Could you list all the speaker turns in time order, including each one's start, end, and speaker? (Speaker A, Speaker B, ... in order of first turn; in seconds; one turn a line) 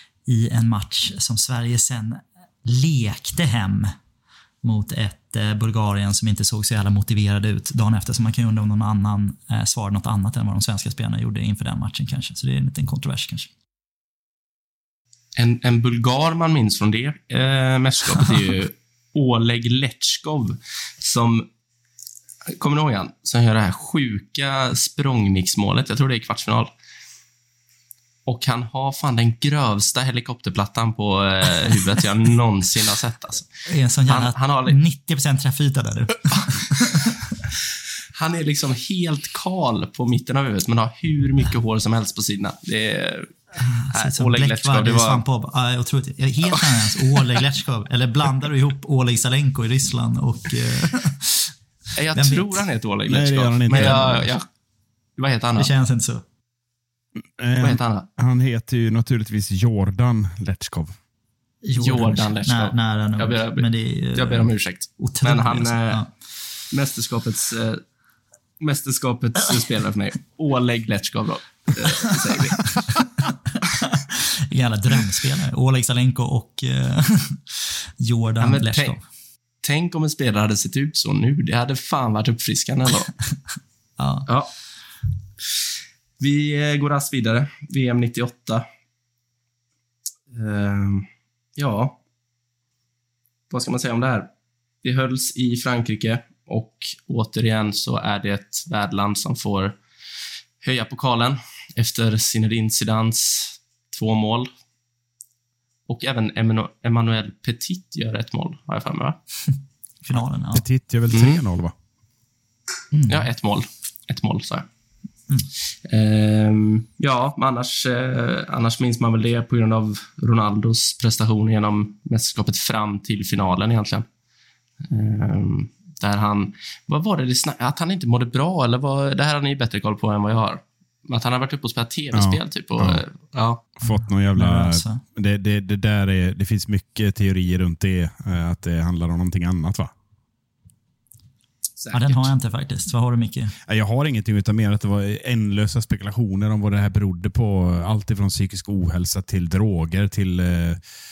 Speaker A: 0.3-3.9
Speaker A: 4.6-13.5
Speaker B: 15.3-21.5
Speaker B: 22.5-26.7
Speaker B: 28.2-33.5
Speaker A: 33.7-37.3
Speaker B: 34.1-34.8
Speaker B: 38.1-43.3
Speaker A: 43.6-51.5
Speaker B: 43.9-45.2
Speaker B: 52.0-54.5
Speaker A: 52.1-52.6
Speaker C: 53.1-54.3
Speaker A: 53.7-54.1
Speaker B: 55.2-55.7
Speaker A: 55.6-56.2
Speaker C: 57.2-60.9
Speaker B: 57.6-58.1
Speaker A: 61.6-66.1
Speaker B: 61.8-66.0
Speaker B: 66.7-67.8
Speaker B: 68.6-72.6
Speaker A: 72.6-79.0
Speaker B: 78.4-79.0
Speaker B: 79.6-83.1
Speaker A: 84.0-84.3
Speaker B: 86.2-88.7
Speaker B: 90.3-92.0
Speaker B: 93.5-94.3
Speaker B: 94.8-99.8
Speaker B: 100.6-104.5
Speaker B: 105.9-109.2
Speaker A: 110.0-110.6
Speaker C: 110.5-111.7
Speaker B: 111.1-111.4
Speaker A: 112.9-113.2
Speaker B: 113.1-114.7
Speaker B: 115.9-124.0
Speaker B: 124.9-133.6
Speaker C: 132.1-133.0
Speaker C: 133.8-139.9
Speaker A: 133.8-135.0
Speaker B: 141.8-142.3
Speaker A: 141.9-143.5
Speaker C: 143.6-150.8